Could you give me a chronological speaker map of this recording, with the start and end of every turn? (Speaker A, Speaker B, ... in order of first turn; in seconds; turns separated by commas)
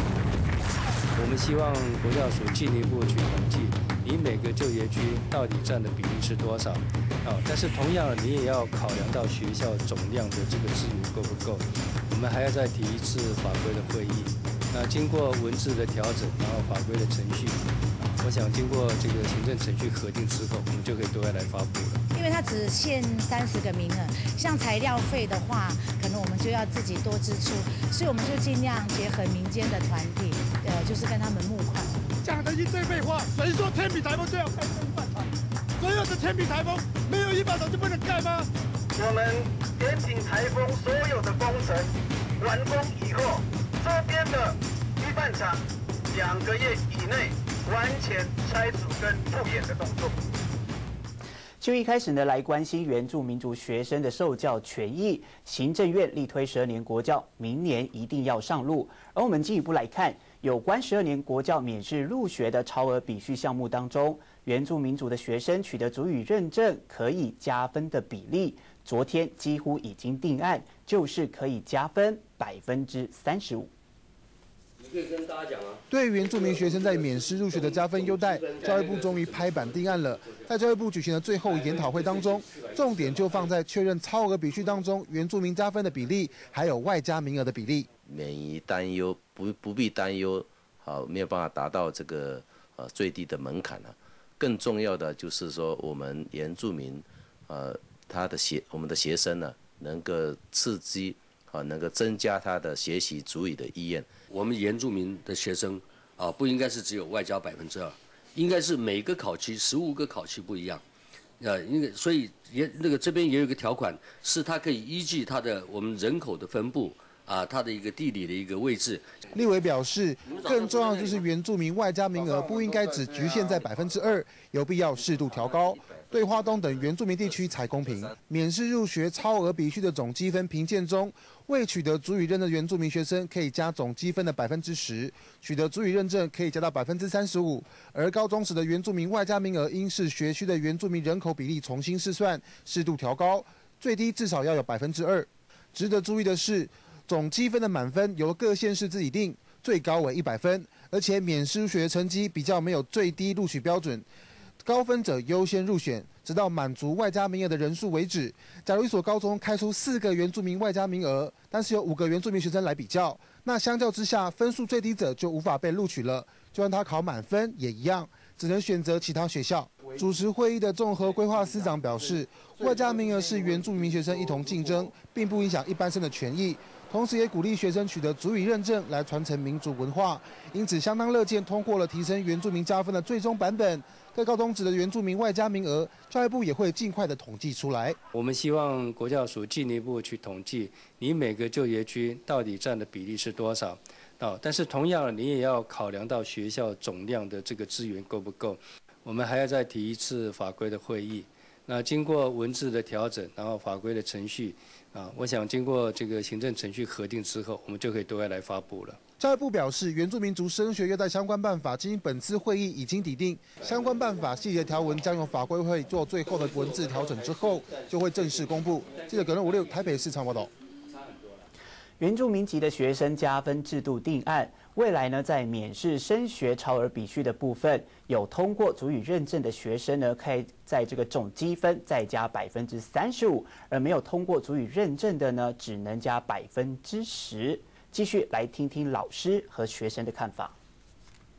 Speaker A: 1.2-17.7, Speaker A: 18.2-22.0, Speaker B: 22.1-32.0, Speaker C: 32.5-35.1, Speaker C: 35.8-38.5, Speaker D: 39.0-50.2, Speaker E: 51.6-73.7, Speaker F: 74.8-75.8, Speaker G: 75.9-87.9, Speaker F: 77.6-79.6, Speaker F: 81.8-83.3, Speaker H: 88.1-104.1, Speaker F: 104.3-110.8, Speaker F: 111.4-119.1, Speaker G: 119.3-154.1, Speaker G: 154.6-188.0, Speaker A: 188.1-209.0, Speaker G: 209.2-220.5, Speaker E: 222.0-240.6